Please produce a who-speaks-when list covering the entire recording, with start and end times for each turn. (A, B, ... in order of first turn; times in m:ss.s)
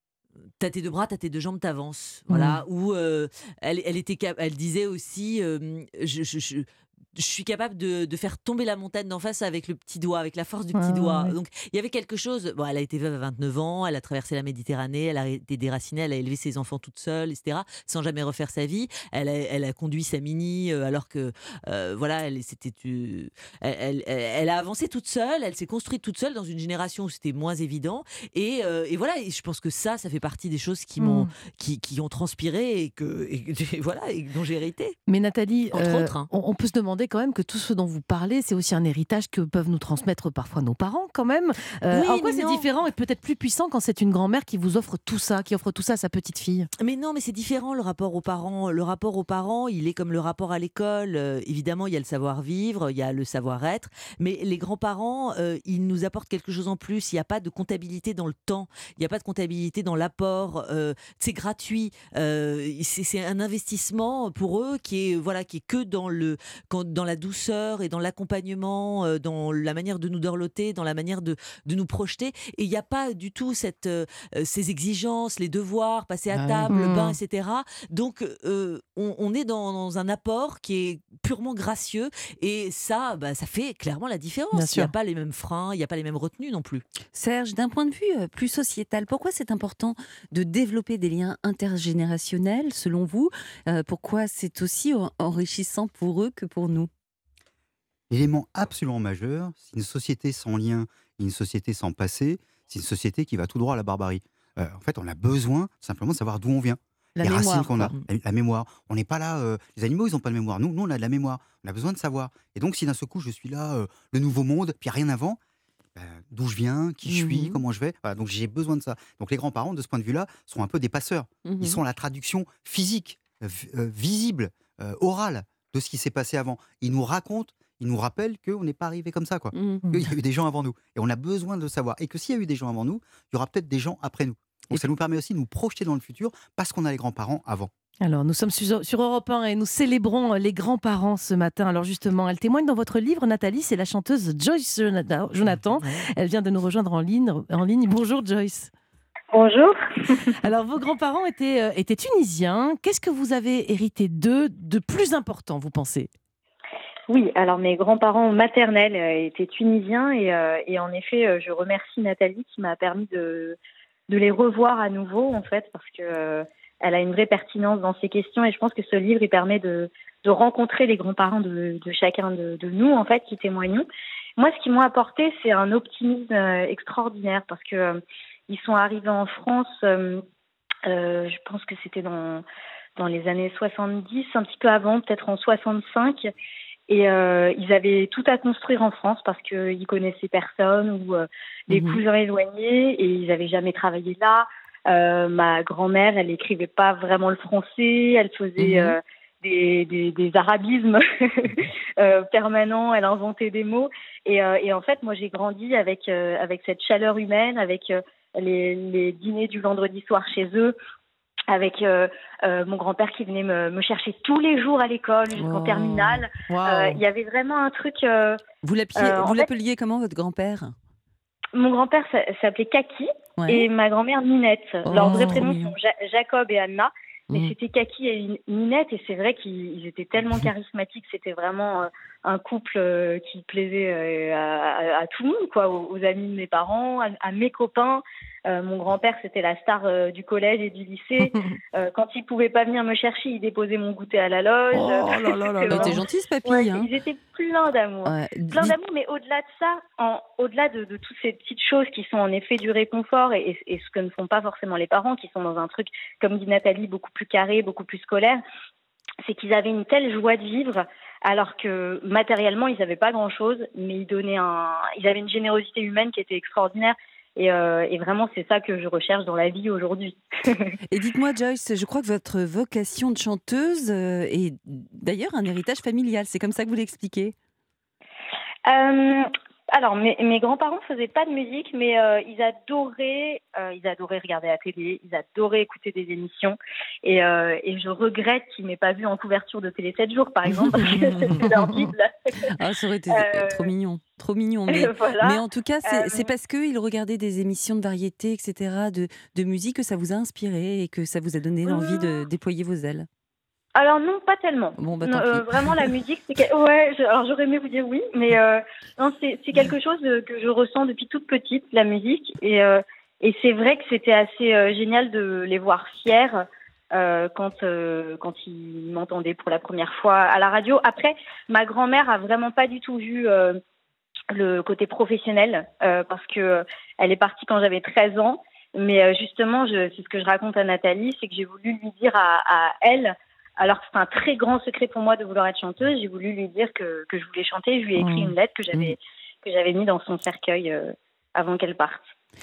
0:00.6-0:35.0 A
0:02.3-0:02.6 B
0:10.7-0:11.3 B
0:31.0-0:31.3 B
0:35.1-0:46.7 B
0:35.7-0:36.3 A
0:41.9-0:42.7 A
0:46.8-1:26.8 A
1:16.3-1:16.7 C
1:16.7-1:17.2 B
1:24.5-1:24.9 B
1:27.1-1:36.9 C
1:38.1-1:55.4 D
1:47.2-1:47.9 B
1:55.9-2:17.7 D
1:57.1-1:57.6 C
2:01.4-2:01.8 C
2:09.5-2:09.8 C
2:18.0-2:28.7 B
2:25.8-2:26.1 A
2:29.3-2:30.3 E
2:30.2-2:36.1 B
2:37.1-2:43.6 E
2:44.1-3:00.2 E
3:00.8-3:02.4 E
3:03.0-3:06.3 E
3:06.9-3:30.8 E
3:11.7-3:12.0 C
3:18.6-3:19.0 C
3:31.5-3:38.4 E
3:35.3-3:36.2 C
3:36.5-3:37.0 B
3:38.6-3:40.7 C
3:39.0-3:39.5 E
3:41.5-4:18.4 E
3:43.4-3:43.7 C
3:44.8-3:45.7 C
3:45.1-3:45.4 B
4:04.7-4:06.9 C
4:08.0-4:08.8 C
4:19.2-4:30.7 E
4:30.9-4:37.3 C
4:38.7-4:52.5 E
4:50.6-4:51.5 C
4:52.4-5:03.1 C
4:53.1-4:53.7 E
4:54.7-4:56.3 E
5:01.6-5:02.2 E
5:03.8-5:23.6 E
5:04.8-5:05.9 C
5:24.3-5:42.0 E
5:38.0-5:38.9 C